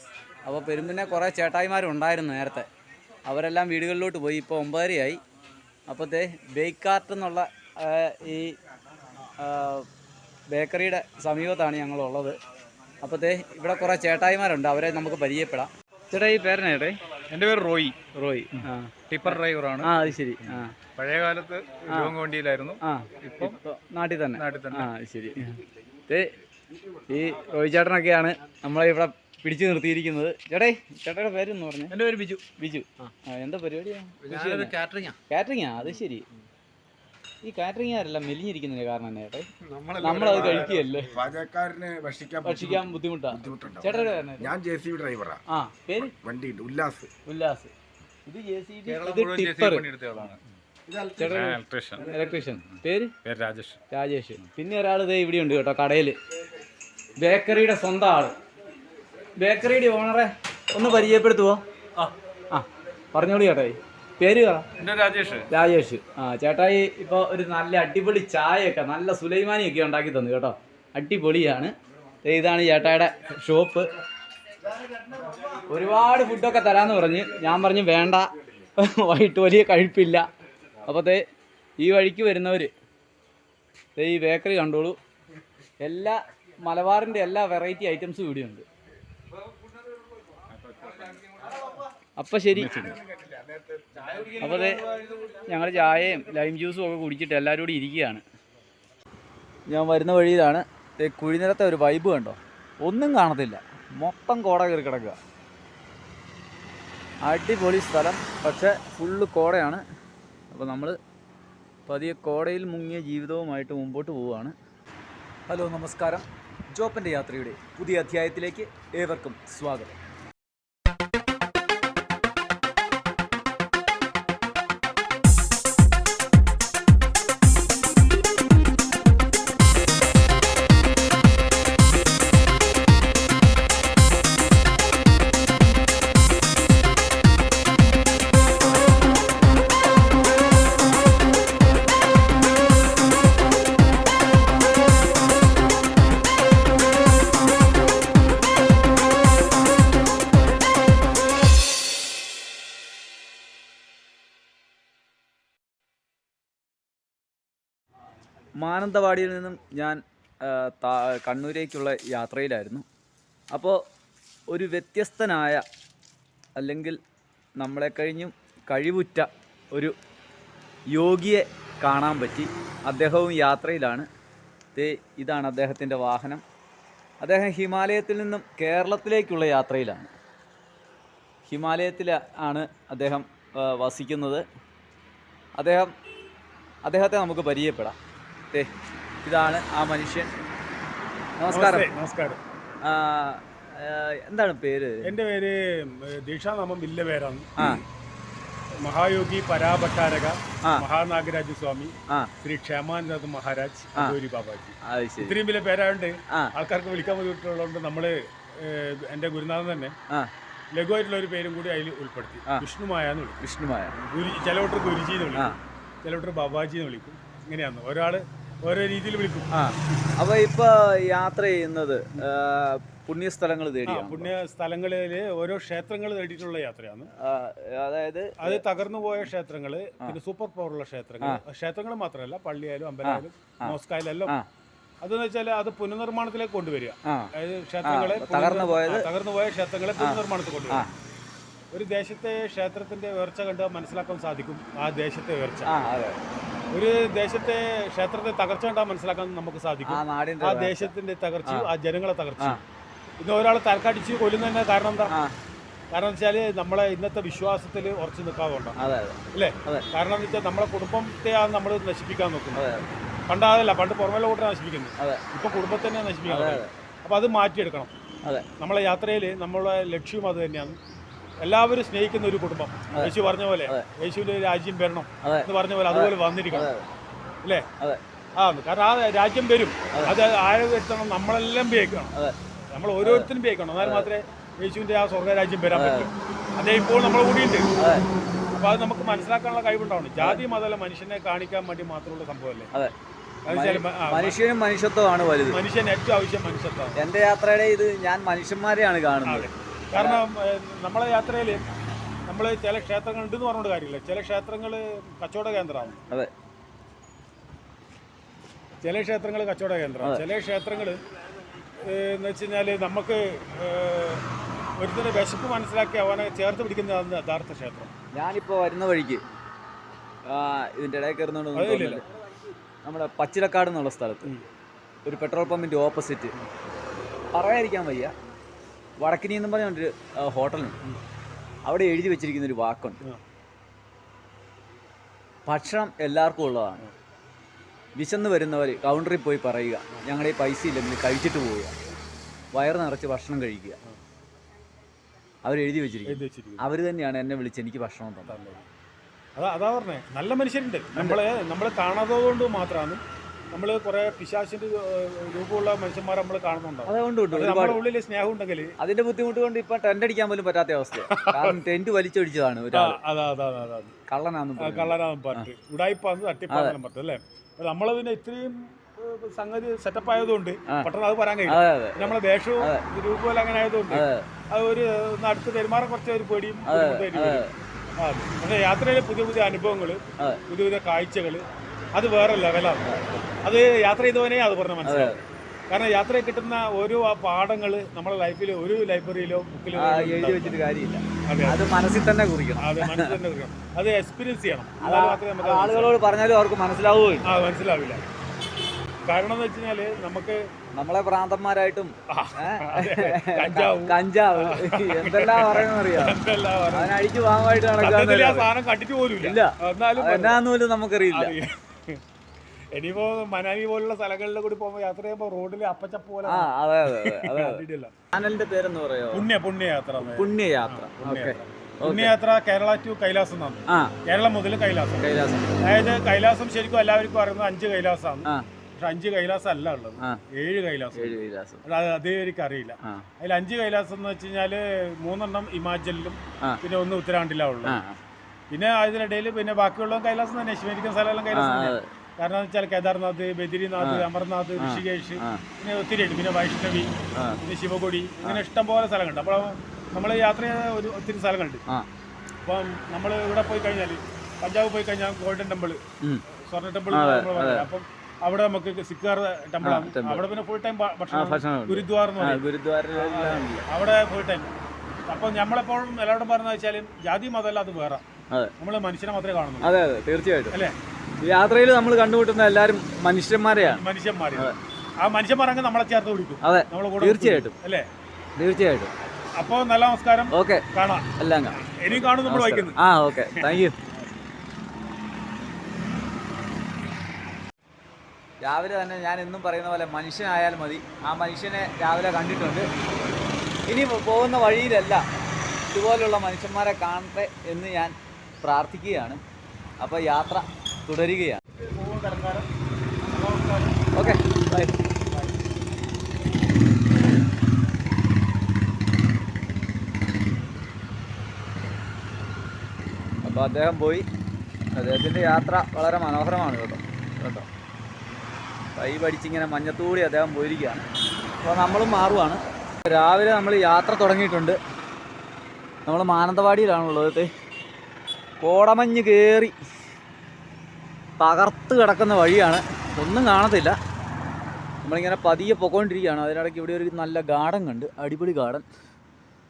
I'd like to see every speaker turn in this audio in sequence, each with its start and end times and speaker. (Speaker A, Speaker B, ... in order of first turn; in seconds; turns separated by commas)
Speaker A: 0.4-2.7, Speaker A: 3.2-5.2, Speaker A: 5.9-8.6, Speaker A: 9.4-9.9, Speaker A: 10.5-12.4, Speaker A: 13.0-17.0, Speaker B: 17.3-23.6, Speaker A: 18.1-20.7, Speaker A: 21.9-22.2, Speaker A: 22.8-26.3, Speaker B: 24.3-24.9, Speaker A: 27.1-31.9, Speaker B: 31.9-32.4, Speaker A: 32.6-34.7, Speaker B: 34.2-35.2, Speaker A: 35.3-36.2, Speaker A: 37.4-39.5, Speaker B: 39.6-41.1, Speaker A: 40.0-41.1, Speaker C: 40.3-45.4, Speaker A: 42.4-44.5, Speaker A: 45.5-46.1, Speaker C: 46.0-47.1, Speaker A: 47.2-47.7, Speaker A: 48.2-49.9, Speaker B: 48.9-50.4, Speaker C: 50.9-51.4, Speaker A: 51.2-53.1, Speaker B: 51.2-53.8, Speaker A: 53.9-56.2, Speaker A: 57.2-58.3, Speaker A: 59.4-61.6, Speaker A: 62.5-64.7, Speaker B: 64.8-65.5, Speaker A: 65.5-73.9, Speaker A: 75.6-80.3, Speaker A: 80.8-81.2, Speaker A: 81.8-82.7, Speaker A: 84.0-85.0, Speaker A: 85.8-88.7, Speaker C: 90.6-91.5, Speaker A: 92.2-93.0, Speaker C: 92.6-94.3, Speaker A: 94.4-98.2, Speaker B: 94.5-95.3, Speaker A: 99.7-105.2, Speaker A: 107.2-109.8, Speaker A: 110.5-111.0, Speaker A: 111.8-114.5, Speaker A: 115.5-119.9, Speaker A: 158.6-162.8, Speaker A: 163.5-163.8, Speaker A: 164.5-165.6, Speaker A: 166.6-167.0, Speaker A: 167.6-169.9, Speaker A: 170.9-174.1, Speaker A: 174.8-176.4, Speaker A: 177.2-180.1, Speaker A: 181.4-184.4, Speaker A: 185.6-185.9, Speaker A: 186.8-188.0, Speaker A: 189.2-190.3, Speaker A: 191.4-191.9, Speaker D: 191.5-192.4, Speaker A: 192.8-195.1, Speaker D: 195.0-197.8, Speaker A: 197.6-197.8, Speaker D: 198.8-209.9, Speaker A: 204.8-205.4, Speaker D: 210.7-213.4, Speaker A: 213.4-214.0, Speaker D: 214.1-219.5, Speaker A: 219.5-224.3, Speaker D: 223.8-227.1, Speaker A: 227.2-228.6, Speaker D: 228.4-234.3, Speaker A: 233.0-233.7, Speaker D: 235.0-240.9, Speaker A: 237.1-237.3, Speaker A: 237.8-239.1, Speaker A: 240.0-240.9, Speaker D: 241.7-245.7, Speaker A: 245.6-246.2, Speaker D: 246.7-252.6, Speaker A: 249.8-250.9, Speaker D: 253.2-255.1, Speaker A: 255.1-255.3, Speaker D: 255.9-258.8, Speaker A: 258.8-259.9, Speaker D: 259.3-262.6, Speaker A: 262.5-262.8, Speaker D: 263.3-267.9, Speaker A: 266.2-266.7, Speaker D: 268.6-270.8, Speaker D: 271.4-276.7, Speaker A: 275.2-276.8, Speaker D: 278.4-282.1, Speaker D: 282.7-287.7, Speaker A: 283.0-283.3, Speaker A: 283.8-284.1, Speaker A: 285.7-286.1, Speaker A: 287.8-288.1, Speaker D: 288.5-292.7, Speaker D: 293.5-294.4, Speaker A: 293.5-295.6, Speaker D: 295.5-297.0, Speaker A: 296.9-300.2, Speaker D: 299.2-301.6, Speaker D: 302.3-306.0, Speaker D: 308.8-311.0, Speaker D: 311.8-314.2, Speaker D: 314.8-317.9, Speaker A: 318.1-319.2, Speaker A: 320.2-322.0, Speaker D: 321.5-322.0, Speaker A: 322.9-324.3, Speaker A: 325.0-326.3, Speaker A: 327.3-328.1, Speaker A: 329.0-330.8, Speaker A: 331.6-333.0, Speaker A: 335.4-336.9, Speaker A: 338.0-341.7, Speaker A: 342.5-343.8, Speaker A: 345.4-348.4, Speaker D: 346.0-346.6, Speaker D: 348.3-348.6, Speaker D: 349.4-353.0, Speaker D: 353.5-358.7, Speaker A: 356.9-357.8, Speaker A: 358.8-363.0, Speaker D: 361.1-361.6, Speaker D: 362.7-363.9, Speaker A: 364.1-365.5, Speaker D: 364.6-377.4, Speaker A: 366.5-366.8, Speaker A: 371.5-372.8, Speaker A: 373.9-374.3, Speaker A: 376.6-377.5, Speaker D: 378.0-381.4, Speaker D: 381.9-390.6, Speaker A: 382.8-383.3, Speaker A: 384.8-385.2, Speaker A: 389.7-393.1, Speaker D: 391.2-391.6, Speaker D: 392.6-395.9, Speaker A: 394.8-397.3, Speaker D: 397.2-398.0, Speaker D: 399.1-400.4, Speaker A: 400.8-408.5, Speaker D: 402.1-407.0, Speaker D: 407.8-410.4, Speaker A: 409.2-411.4, Speaker D: 411.1-412.0, Speaker D: 412.8-417.9, Speaker A: 416.2-419.3, Speaker D: 419.1-425.1, Speaker A: 420.0-422.1, Speaker A: 423.7-423.9, Speaker A: 425.0-425.6, Speaker D: 425.6-437.8, Speaker A: 430.9-431.6, Speaker A: 432.8-433.1, Speaker A: 437.6-438.0, Speaker D: 438.5-451.6, Speaker A: 441.3-441.9, Speaker A: 443.8-444.1, Speaker A: 444.6-445.4, Speaker A: 447.1-447.4, Speaker D: 452.4-455.8, Speaker D: 456.4-464.5, Speaker A: 456.9-457.7, Speaker A: 459.6-460.2, Speaker A: 461.1-463.6, Speaker D: 465.1-468.1, Speaker D: 468.6-469.7, Speaker A: 469.6-470.6, Speaker D: 470.5-470.8, Speaker A: 471.2-474.6, Speaker D: 473.7-477.9, Speaker A: 476.4-477.6, Speaker A: 478.4-478.9, Speaker D: 479.4-483.6, Speaker A: 480.3-483.7, Speaker A: 488.4-492.7, Speaker A: 493.6-495.0, Speaker A: 495.7-499.2, Speaker A: 499.8-501.4, Speaker D: 501.5-502.5, Speaker D: 503.0-504.1, Speaker A: 503.9-504.8, Speaker D: 505.1-505.4, Speaker A: 513.2-514.0, Speaker A: 514.7-517.5, Speaker A: 518.8-520.9, Speaker A: 521.4-524.6, Speaker A: 525.9-527.3, Speaker A: 528.4-529.5, Speaker A: 531.2-533.8, Speaker A: 534.8-538.6